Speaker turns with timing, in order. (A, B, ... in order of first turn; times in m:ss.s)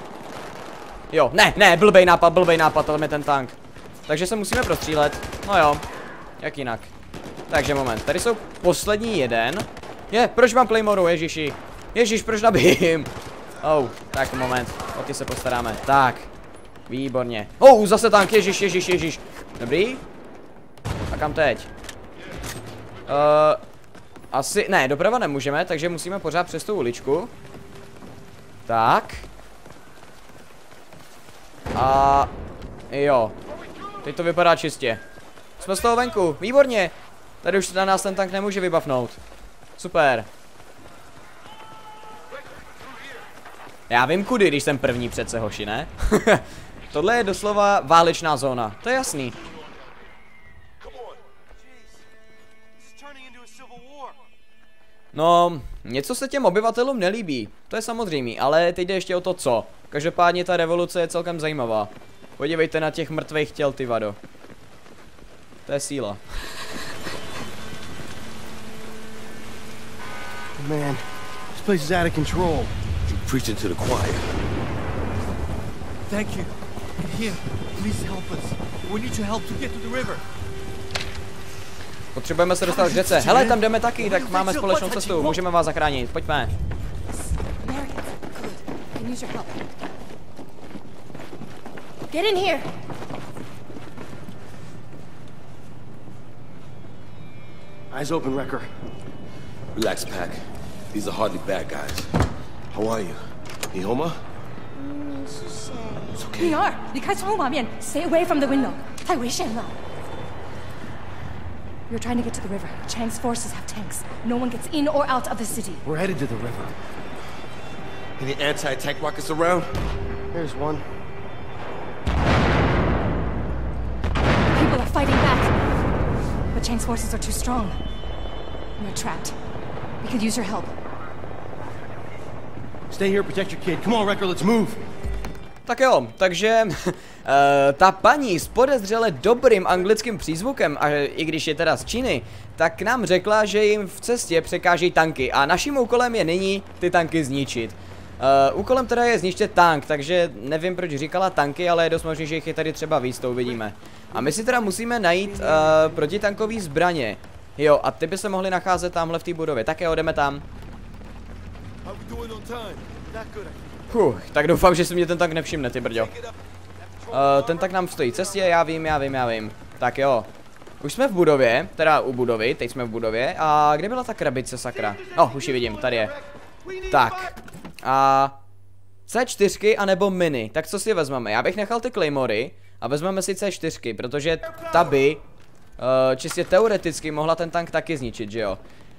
0:01.1-0:03.6 A
0:04.1-0:05.8 A
0:06.4-0:06.9 A
0:07.5-0:13.1 A
0:13.6-0:16.3 A
0:16.9-0:20.0 A
0:21.1-0:21.7 A
0:23.1-0:23.6 A
0:24.3-0:27.3 A
0:28.7-0:29.2 A
0:31.7-0:32.3 A
0:32.9-0:33.4 A
0:34.0-0:35.0 A
0:35.6-0:39.2 A
0:39.8-0:40.3 A
0:43.9-0:49.4 A
0:50.8-0:51.2 B
0:52.8-0:54.2 C
0:55.1-1:04.2 A
1:05.6-1:06.2 A
1:10.6-1:12.7 D
1:13.1-1:14.3 B
1:16.1-1:20.2 C
1:22.1-1:26.5 A
1:22.7-1:25.4 C
1:27.1-1:29.6 E
1:32.1-1:32.7 E
1:37.9-1:38.6 D
1:39.7-1:42.1 B
1:42.7-1:44.2 B
1:46.1-1:46.6 B
1:46.3-1:49.8 E
1:51.9-1:55.8 E
1:55.8-1:56.7 D
1:58.2-1:59.8 B
2:00.3-2:00.8 D
2:04.5-2:05.6 E
2:06.5-2:07.8 E
2:08.8-2:09.4 E
2:10.0-2:10.7 E
2:12.9-2:14.8 D
2:15.6-2:40.4 A
2:34.1-2:36.0 D
2:41.8-2:42.9 B
2:43.0-2:43.6 C
2:43.9-2:46.1 A
2:46.0-2:46.3 B
2:46.8-2:48.4 C
2:47.1-2:50.3 A
2:50.8-2:56.1 A
2:54.7-2:57.4 C
2:56.9-2:58.3 A
2:59.1-3:05.2 A
3:05.8-3:08.6 A